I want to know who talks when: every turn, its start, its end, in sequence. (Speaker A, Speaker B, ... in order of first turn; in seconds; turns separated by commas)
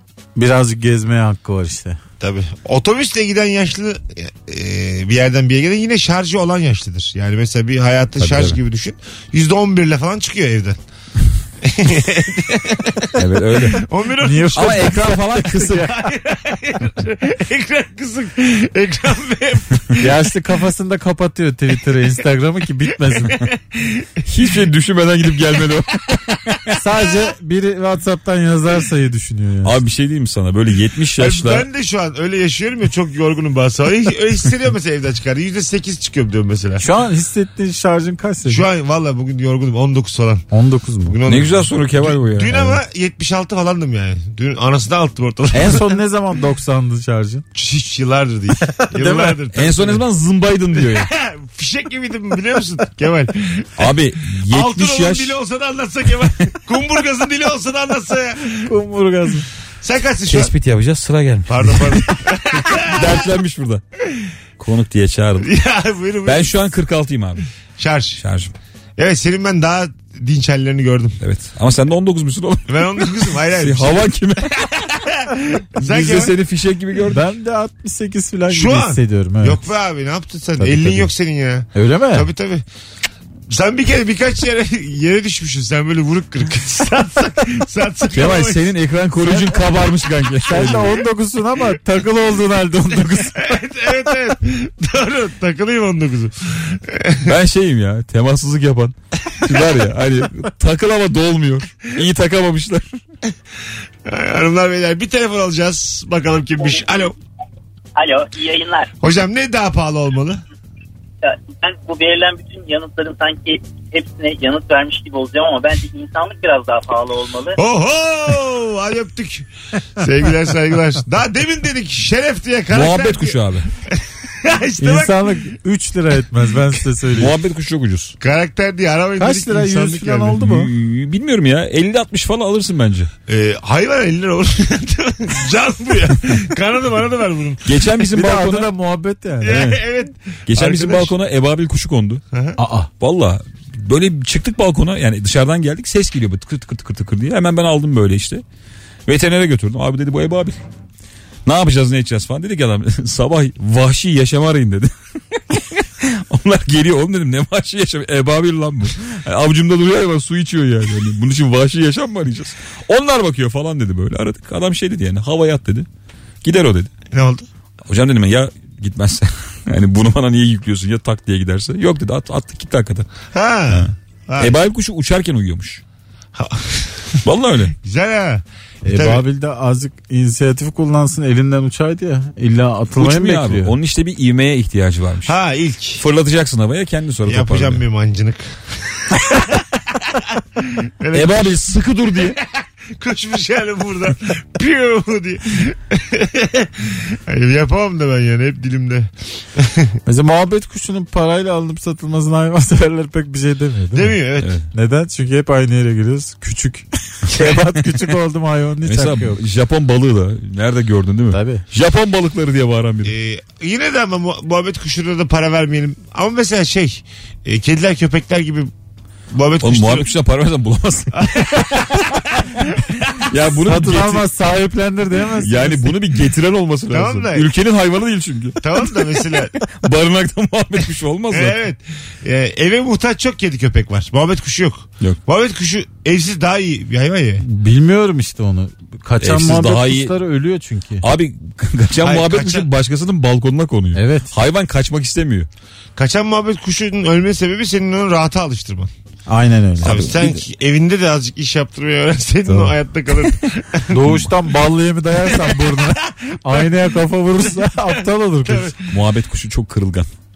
Speaker A: 0.3-2.0, Speaker B: 2.2-10.8, Speaker C: 8.2-8.6, Speaker B: 11.6-13.1, Speaker C: 13.1-13.9, Speaker B: 13.7-20.1, Speaker A: 14.2-15.9, Speaker C: 14.5-15.9, Speaker A: 20.0-23.4, Speaker B: 23.3-24.1, Speaker C: 24.3-26.6, Speaker A: 26.7-29.7, Speaker C: 29.6-31.6, Speaker B: 31.2-36.8, Speaker A: 36.8-38.6, Speaker B: 38.5-40.5, Speaker A: 40.5-41.2, Speaker B: 41.0-45.9, Speaker C: 41.2-42.8, Speaker A: 45.5-47.4, Speaker B: 47.5-50.0, Speaker A: 48.8-49.4, Speaker C: 49.5-51.1, Speaker B: 50.8-58.7, Speaker C: 53.8-55.4, Speaker A: 58.6-59.5, Speaker B: 59.8-60.5, Speaker C: 60.3-62.1, Speaker B: 61.5-63.2, Speaker C: 62.8-63.8, Speaker C: 64.6-65.5, Speaker B: 65.4-66.7, Speaker C: 66.2-67.5, Speaker B: 67.8-68.2, Speaker C: 68.2-68.5, Speaker B: 69.0-71.2, Speaker C: 71.2-74.7, Speaker B: 72.7-76.3, Speaker C: 75.8-77.2, Speaker A: 77.1-79.6, Speaker B: 78.5-82.6, Speaker A: 80.8-81.0, Speaker A: 81.7-82.3, Speaker B: 83.5-88.7, Speaker C: 88.1-91.0, Speaker A: 90.5-93.5, Speaker B: 93.3-97.3, Speaker C: 97.2-102.8, Speaker B: 104.0-107.1, Speaker D: 108.0-108.9, Speaker B: 109.0-110.4, Speaker D: 111.2-117.6, Speaker B: 117.5-125.4, Speaker C: 122.7-123.7, Speaker A: 124.8-127.3, Speaker C: 127.1-128.1, Speaker B: 128.2-130.4, Speaker A: 129.2-130.7, Speaker C: 130.4-133.1, Speaker B: 133.3-137.6, Speaker C: 137.6-138.7, Speaker A: 138.1-139.6, Speaker B: 139.4-141.1, Speaker C: 139.4-139.8, Speaker C: 140.5-142.2, Speaker B: 142.3-142.6, Speaker A: 142.6-142.9, Speaker C: 143.0-148.4, Speaker C: 149.1-150.6, Speaker C: 151.4-154.9, Speaker C: 155.5-165.9, Speaker C: 166.4-166.9, Speaker B: 167.1-167.5, Speaker C: 167.9-173.1, Speaker B: 173.3-174.6, Speaker C: 173.7-175.8, Speaker B: 176.3-177.2, Speaker C: 177.2-177.7, Speaker B: 177.8-179.2, Speaker A: 178.8-183.7, Speaker C: 182.9-185.3, Speaker B: 185.2-186.0, Speaker C: 186.0-187.8, Speaker B: 187.2-189.6, Speaker B: 190.6-191.6, Speaker C: 191.1-192.4, Speaker B: 192.3-199.9, Speaker A: 200.1-204.2, Speaker B: 203.9-204.5, Speaker C: 204.4-204.6, Speaker A: 204.7-209.4, Speaker C: 207.3-208.1, Speaker C: 208.8-213.1, Speaker A: 211.3-211.6, Speaker B: 213.0-218.7, Speaker B: 219.3-220.1, Speaker C: 219.6-222.3, Speaker B: 221.1-223.2, Speaker C: 223.3-224.3, Speaker A: 223.7-225.9, Speaker C: 225.3-231.6, Speaker B: 226.9-227.5, Speaker B: 228.6-229.6, Speaker B: 231.3-237.4, Speaker A: 237.4-241.0, Speaker C: 239.2-240.2, Speaker C: 241.0-245.5, Speaker B: 242.0-242.7, Speaker A: 243.9-244.3, Speaker B: 245.9-248.9, Speaker A: 249.3-250.0, Speaker B: 249.8-254.2, Speaker C: 249.8-250.4, Speaker A: 252.4-252.7, Speaker A: 253.9-258.7, Speaker B: 255.2-256.7, Speaker B: 258.4-258.9, Speaker C: 258.9-260.1